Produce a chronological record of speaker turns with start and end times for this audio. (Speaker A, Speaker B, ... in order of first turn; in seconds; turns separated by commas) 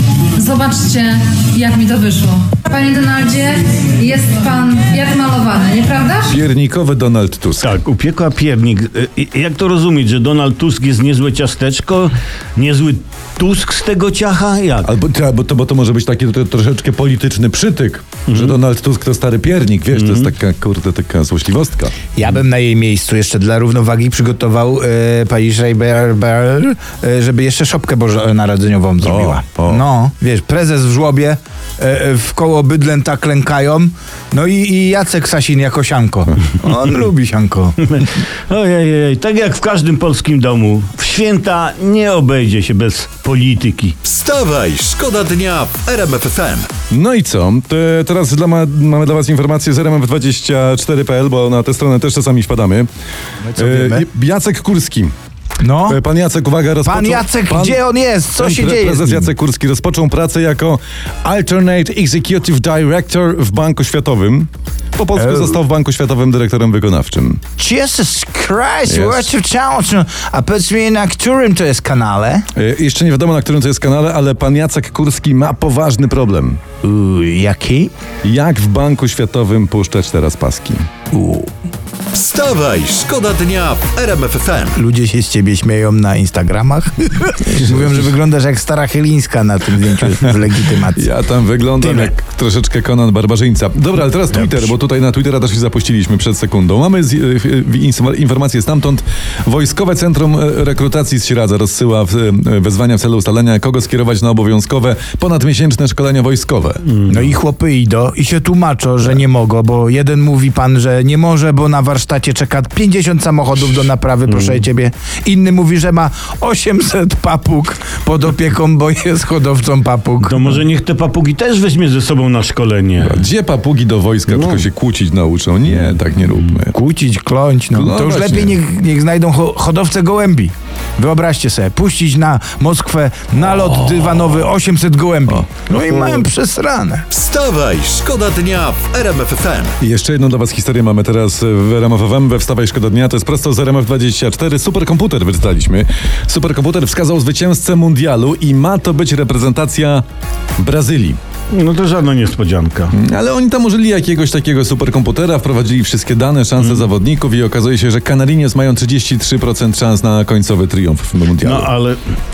Speaker A: 0.3-6.4, Speaker B: 6.3-7.7, Speaker C: 7.6-14.9, Speaker B: 14.8-21.9, Speaker C: 18.2-18.6, Speaker C: 19.9-20.3, Speaker D: 22.1-38.0, Speaker B: 29.0-29.8, Speaker C: 37.8-43.9, Speaker E: 44.0-46.7, Speaker B: 46.9-52.9, Speaker D: 53.4-54.0, Speaker B: 53.5-55.1, Speaker D: 55.6-56.0, Speaker B: 55.9-57.8, Speaker D: 56.8-59.3, Speaker B: 58.4-67.4, Speaker D: 65.1-65.6, Speaker D: 67.6-72.5, Speaker B: 68.9-69.3, Speaker B: 72.5-76.6, Speaker D: 76.8-77.9, Speaker B: 78.2-80.8, Speaker D: 81.1-81.5, Speaker E: 82.1-84.8, Speaker D: 84.7-91.1, Speaker B: 90.9-106.8, Speaker D: 94.3-94.7, Speaker C: 106.8-107.3, Speaker D: 107.0-120.6, Speaker C: 114.3-114.6, Speaker C: 120.2-123.2, Speaker B: 123.0-126.7, Speaker C: 124.3-124.6, Speaker D: 126.7-137.1, Speaker B: 127.7-128.6, Speaker B: 135.3-135.6, Speaker E: 137.1-139.7, Speaker B: 139.8-150.0, Speaker B: 150.6-151.2, Speaker C: 151.5-152.9, Speaker B: 153.0-161.7, Speaker C: 156.6-156.9, Speaker C: 161.4-162.0